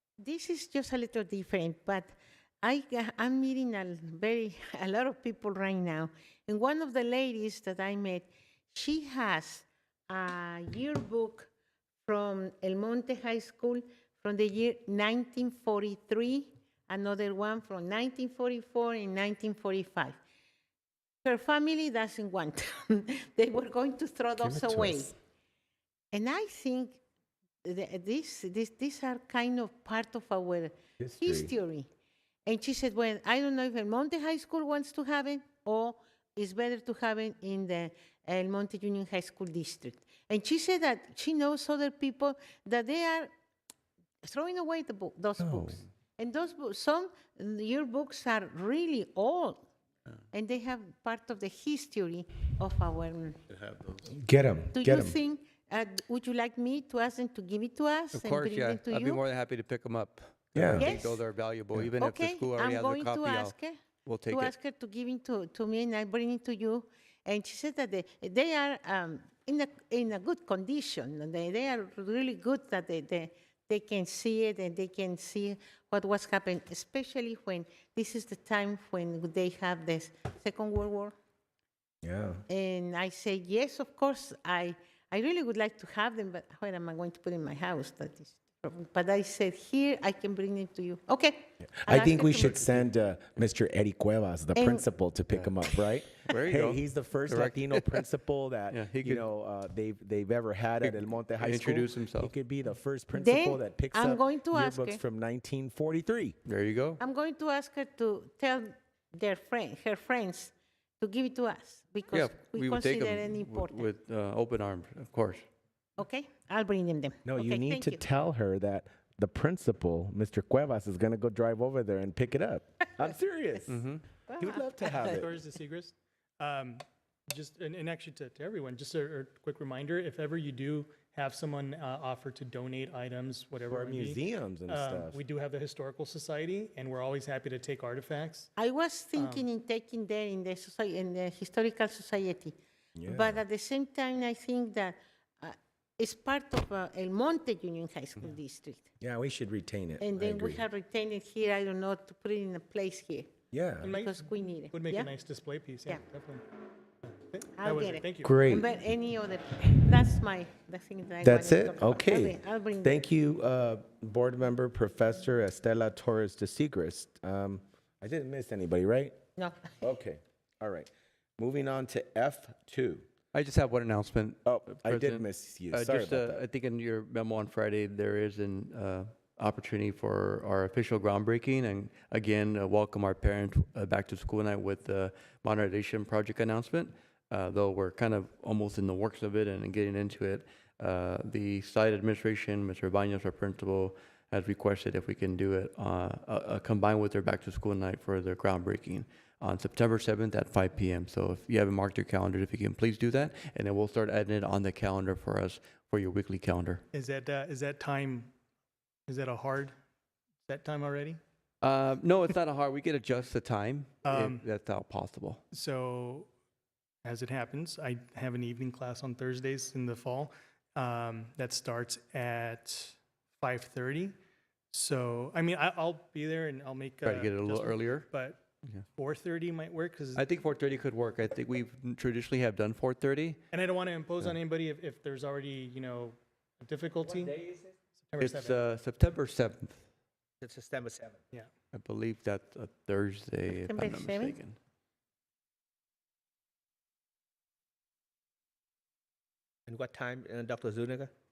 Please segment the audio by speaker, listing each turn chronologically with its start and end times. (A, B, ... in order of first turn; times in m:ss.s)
0:00.2-0:02.1 A
0:02.6-0:11.5 A
0:12.1-0:20.2 A
0:21.2-0:25.1 A
0:24.4-0:25.1 B
0:26.1-0:27.0 A
0:27.6-0:31.9 A
0:31.0-0:31.5 B
0:32.5-0:43.3 A
0:44.2-0:49.6 A
0:45.4-0:45.7 B
0:50.3-0:53.4 A
0:54.0-0:55.2 B
0:54.7-0:59.2 A
0:58.1-1:04.5 C
1:00.6-1:00.9 B
1:00.8-1:01.2 A
1:02.0-1:03.8 A
1:04.3-1:21.1 A
1:22.0-1:22.4 B
1:22.5-1:32.8 A
1:31.8-1:46.4 B
1:34.6-1:34.9 A
1:36.2-1:38.1 C
1:38.7-1:39.2 C
1:40.8-1:42.3 C
1:43.1-1:45.0 A
1:46.5-1:47.0 C
1:47.0-1:53.9 A
1:52.1-1:55.5 C
1:56.0-1:58.0 A
1:57.2-2:05.3 B
2:03.7-2:04.0 C
2:04.3-2:05.1 A
2:05.0-2:18.5 D
2:13.7-2:15.2 B
2:18.6-2:22.6 A
2:19.2-2:19.5 D
2:23.0-2:23.4 B
2:23.1-2:28.9 A
2:29.0-2:30.6 B
2:30.0-2:33.3 A
2:33.5-2:33.9 B
2:33.8-2:36.4 D
2:33.9-2:35.1 A
2:37.0-2:38.5 D
2:37.6-2:43.0 A
2:38.2-2:38.7 B
2:41.2-2:49.2 B
2:49.4-2:49.7 A
2:49.8-2:53.1 B
2:53.3-3:26.8 C
2:54.4-2:56.4 B
3:26.9-3:28.3 D
3:29.1-3:29.7 D
3:30.5-3:31.2 D
3:31.6-3:35.4 C
3:34.0-3:34.4 D
3:35.5-3:36.3 D
3:37.0-3:44.1 D
3:44.7-3:48.4 D
3:47.0-3:48.1 C
3:49.0-3:50.3 D
3:50.1-3:53.4 C
3:53.5-3:57.4 D
3:57.2-3:57.7 E
3:58.1-3:58.7 D
3:58.2-3:59.8 C
4:00.4-4:01.2 E
4:01.7-4:04.6 C
4:03.6-4:04.4 A
4:09.7-4:11.1 E